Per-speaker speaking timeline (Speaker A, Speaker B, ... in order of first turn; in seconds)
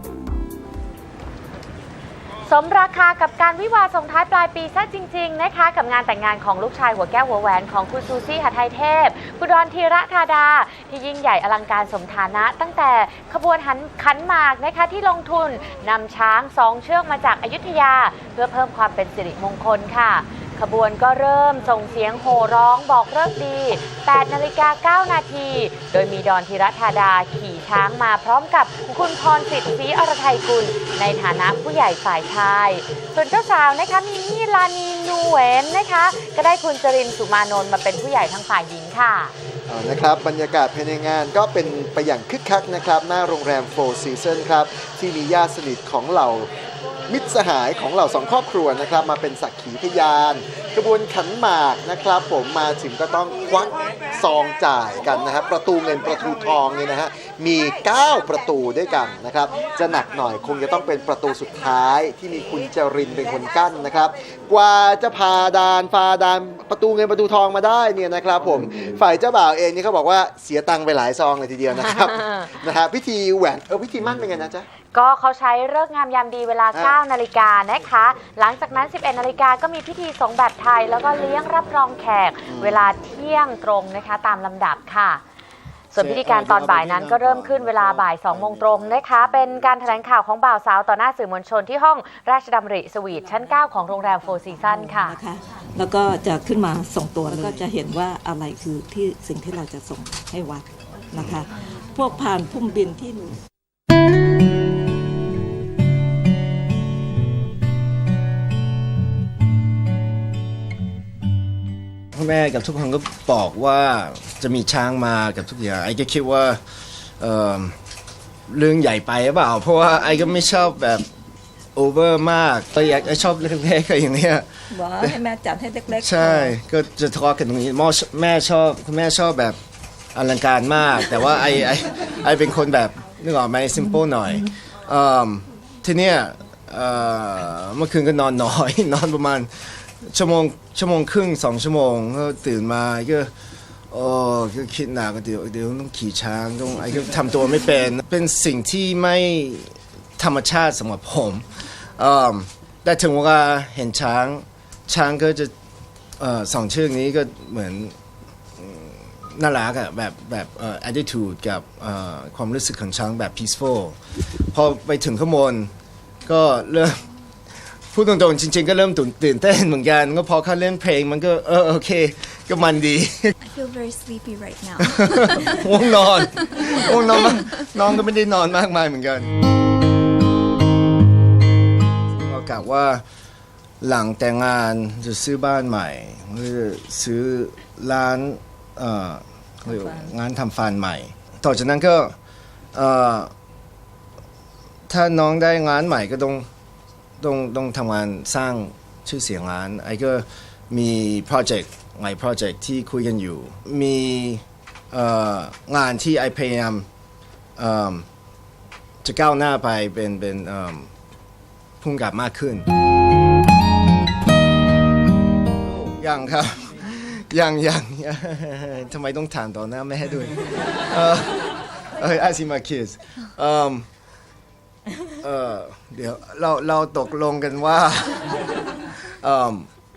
Speaker A: 2.5-39.3, 71.7-72.6, 74.9-85.2, 85.9-95.2
Speaker B: 39.7-46.5, 47.1-74.7, 82.5-82.8
Speaker C: 85.9-90.0, 112.1-116.6, 117.2-117.8, 118.5-121.1, 121.8-124.5, 125.9-129.6, 130.1-143.3, 143.9-155.5, 156.2-157.9, 158.6-165.7, 166.2-167.0, 167.9-173.3, 174.8-179.3, 182.1-183.0, 183.8-192.1, 192.7-193.3, 194.9-196.5, 197.2-206.9, 207.6-208.1, 209.0-210.9, 211.8-212.7, 215.6-223.9, 225.2-228.3, 229.2-229.7
Speaker D: 93.1-103.4, 124.7-126.6, 189.7-190.1
Speaker E: 173.4-177.5